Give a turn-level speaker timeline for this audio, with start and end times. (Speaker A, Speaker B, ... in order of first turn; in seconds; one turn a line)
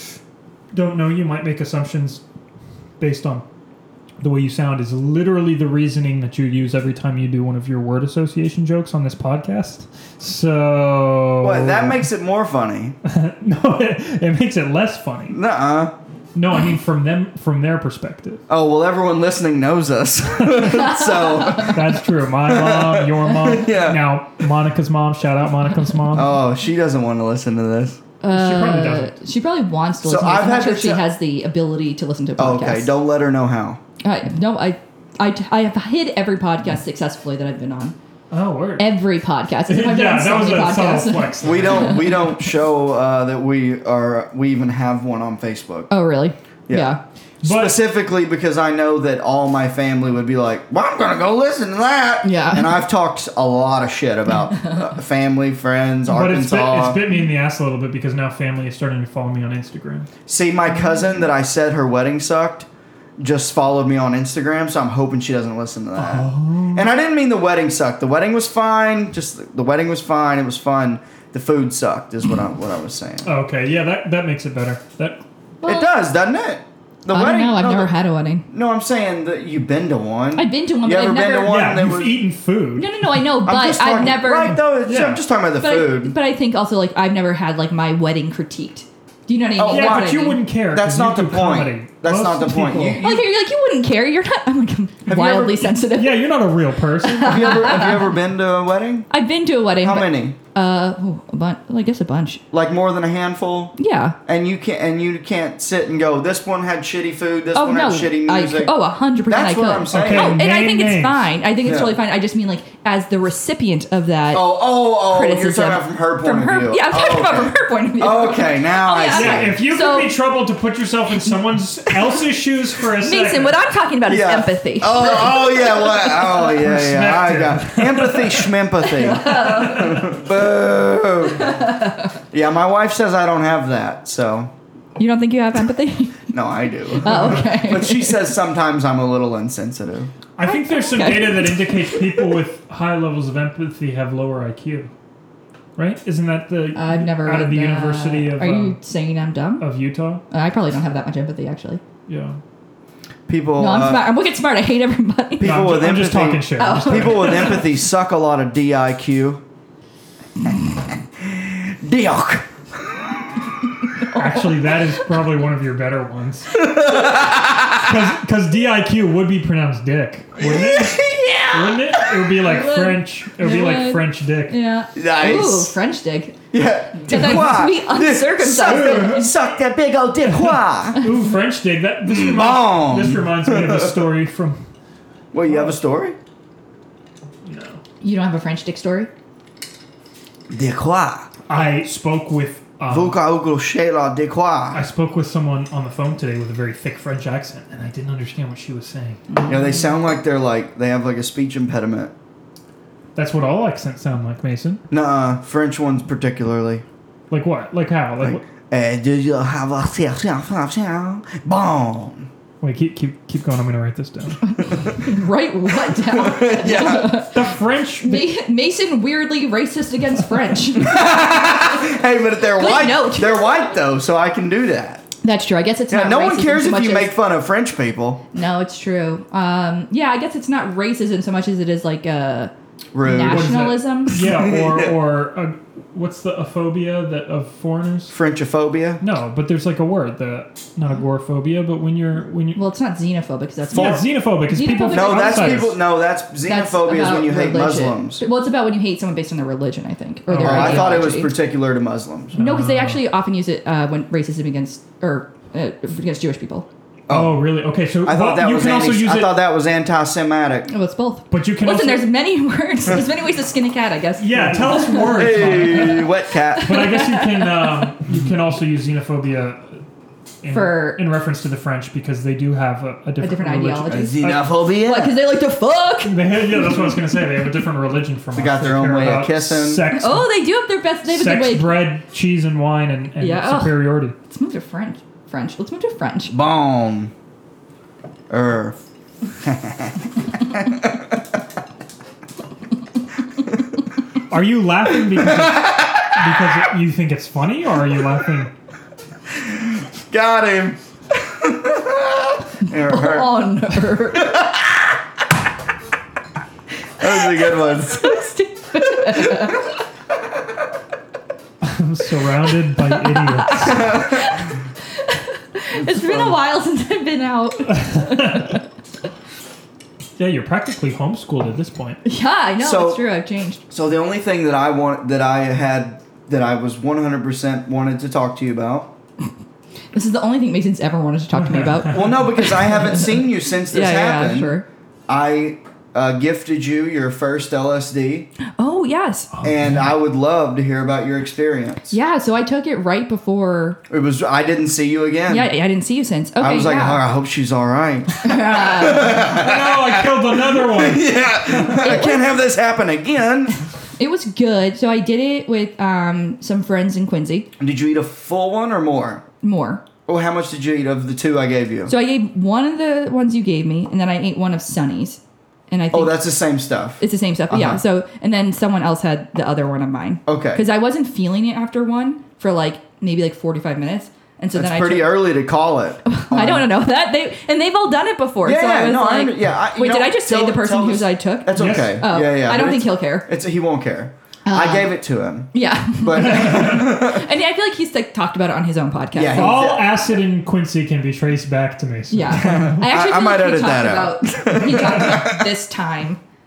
Speaker A: 0.7-2.2
Speaker A: 3.0-3.4
Speaker A: 4.2-12.0
Speaker B: 11.4-13.0
Speaker A: 13.1-15.4
Speaker B: 15.3-15.9
Speaker A: 16.4-18.4
Speaker B: 18.5-24.1
Speaker A: 20.4-20.7
Speaker C: 20.7-21.8
Speaker A: 21.6-26.3
Speaker B: 26.1-28.0
Speaker C: 28.2-32.9
Speaker A: 28.3-29.1
Speaker B: 30.0-31.1
Speaker B: 32.4-33.8
Speaker C: 34.0-38.0
Speaker A: 38.3-39.0
Speaker C: 38.8-42.4
Speaker A: 39.7-42.1
Speaker B: 41.4-45.9
Speaker C: 45.9-47.0
Speaker B: 46.7-57.0
Speaker A: 47.4-47.8
Speaker C: 52.2-52.8
Speaker A: 56.1-60.1
Speaker B: 60.3-62.7
Speaker B: 63.2-73.3
Speaker A: 66.0-66.9
Speaker A: 73.2-75.2
Speaker C: 75.6-75.9
Speaker B: 75.6-77.9
Speaker C: 77.1-78.5
Speaker B: 78.5-82.2
Speaker C: 80.3-81.6
Speaker A: 81.5-82.9
Speaker C: 82.8-84.6
Speaker B: 83.4-86.2
Speaker A: 84.8-85.2
Speaker C: 85.6-90.4
Speaker B: 89.6-90.2
Speaker A: 89.7-93.1
Speaker B: 90.7-93.2
Speaker C: 93.0-96.3
Speaker B: 95.1-95.7
Speaker A: 95.7-97.8
Speaker C: 97.0-98.1
Speaker B: 97.2-99.1
Speaker C: 99.1-102.4
Speaker B: 99.8-100.4
Speaker B: 102.5-103.8
Speaker C: 103.8-104.2
Speaker B: 104.3-110.4
Speaker C: 107.5-120.2
Speaker A: 109.9-111.3
Speaker B: 111.7-112.0
Speaker B: 114.3-119.6
Speaker A: 119.1-123.6
Speaker C: 123.0-126.2
Speaker B: 124.1-131.6
Speaker A: 126.3-128.5
Speaker C: 128.8-130.1
Speaker C: 131.4-132.0
Speaker B: 132.3-134.5
Speaker C: 135.0-136.3
Speaker B: 136.3-140.1
Speaker C: 136.9-138.2
Speaker A: 137.1-137.4
Speaker A: 140.4-144.9
Speaker C: 140.4-142.0
Speaker A: 145.8-148.8
Speaker C: 146.8-149.7
Speaker A: 149.6-150.2
Speaker C: 150.3-151.8
Speaker A: 152.1-152.4
Speaker B: 153.3-154.1
Speaker C: 153.6-155.6
Speaker B: 155.4-159.4
Speaker A: 155.4-157.6
Speaker C: 156.6-157.7
Speaker B: 161.2-163.0
Speaker C: 164.0-164.7
Speaker A: 164.1-166.7
Speaker B: 166.6-167.9
Speaker A: 167.7-174.6
Speaker B: 170.4-172.4
Speaker C: 172.4-176.4
Speaker B: 174.9-175.7
Speaker B: 176.5-181.1
Speaker C: 176.9-179.3
Speaker A: 178.7-179.3
Speaker A: 180.2-184.6
Speaker B: 182.0-184.0
Speaker B: 185.3-186.2
Speaker A: 185.5-185.8
Speaker A: 187.4-187.8
Speaker C: 188.0-189.1
Speaker B: 190.5-191.3
Speaker A: 191.5-193.2
Speaker B: 192.9-194.8
Speaker A: 194.7-199.2
Speaker C: 199.3-199.6
Speaker B: 199.5-202.1
Speaker A: 203.2-204.8
Speaker B: 204.9-206.8
Speaker A: 207.3-208.5
Speaker B: 208.2-212.3
Speaker A: 212.6-214.4
Speaker C: 214.4-217.5
Speaker B: 215.9-217.2
Speaker A: 216.9-218.3
Speaker C: 218.0-221.0
Speaker B: 220.8-225.1
Speaker C: 222.6-223.6
Speaker C: 225.2-227.1
Speaker B: 225.9-228.2
Speaker C: 228.3-234.2
Speaker B: 232.9-234.9
Speaker A: 233.2-238.1
Speaker B: 238.1-239.0
Speaker A: 239.0-242.6
Speaker C: 242.6-245.7
Speaker B: 243.7-244.1
Speaker A: 243.7-245.8
Speaker B: 244.9-248.2
Speaker C: 246.4-251.3
Speaker A: 250.3-251.0
Speaker B: 250.4-252.4
Speaker A: 252.3-253.0
Speaker C: 252.4-256.7
Speaker B: 257.1-257.5
Speaker A: 257.1-259.4
Speaker B: 258.0-260.7
Speaker C: 260.7-267.9
Speaker A: 261.3-262.1
Speaker A: 264.2-266.1
Speaker B: 265.1-266.9
Speaker A: 266.6-269.8
Speaker A: 270.4-274.4
Speaker C: 270.5-271.0
Speaker C: 273.2-276.2
Speaker B: 273.9-275.2
Speaker A: 276.0-280.3
Speaker B: 278.4-279.8
Speaker C: 279.9-281.9
Speaker A: 281.1-284.1
Speaker C: 283.2-286.4
Speaker B: 286.3-287.1
Speaker B: 288.3-288.8
Speaker B: 289.4-291.2
Speaker A: 294.3-298.5
Speaker B: 295.1-296.1
Speaker B: 299.3-303.4
Speaker C: 302.7-304.4
Speaker B: 304.1-304.8
Speaker B: 307.0-308.2
Speaker C: 307.1-309.7
Speaker A: 311.6-313.9
Speaker C: 312.9-318.6
Speaker B: 313.6-314.4
Speaker B: 315.8-316.4
Speaker A: 317.7-318.5
Speaker A: 320.2-322.0
Speaker C: 322.1-323.6
Speaker B: 322.6-323.0
Speaker B: 323.7-328.9
Speaker C: 329.9-333.1
Speaker A: 331.4-332.0
Speaker B: 331.9-334.5
Speaker C: 333.7-334.7
Speaker B: 335.1-338.3
Speaker C: 338.6-339.3
Speaker A: 339.3-339.9
Speaker B: 339.4-341.9
Speaker C: 341.9-343.8
Speaker B: 343.9-345.5
Speaker C: 345.3-347.0
Speaker B: 346.4-353.6
Speaker C: 348.2-349.3
Speaker A: 349.1-351.7
Speaker C: 351.7-352.3
Speaker C: 354.0-357.5
Speaker B: 357.6-359.2
Speaker C: 359.4-359.8
Speaker B: 360.1-361.9
Speaker C: 361.9-366.2
Speaker B: 365.9-367.8
Speaker C: 367.0-375.2
Speaker B: 370.3-370.6
Speaker B: 374.5-376.7
Speaker C: 376.1-383.3
Speaker B: 378.4-387.3
Speaker A: 381.6-382.0
Speaker C: 384.5-384.9
Speaker C: 385.5-389.6
Speaker A: 386.4-386.7
Speaker B: 389.1-390.1
Speaker A: 389.4-392.8
Speaker C: 392.1-396.2
Speaker B: 392.3-395.5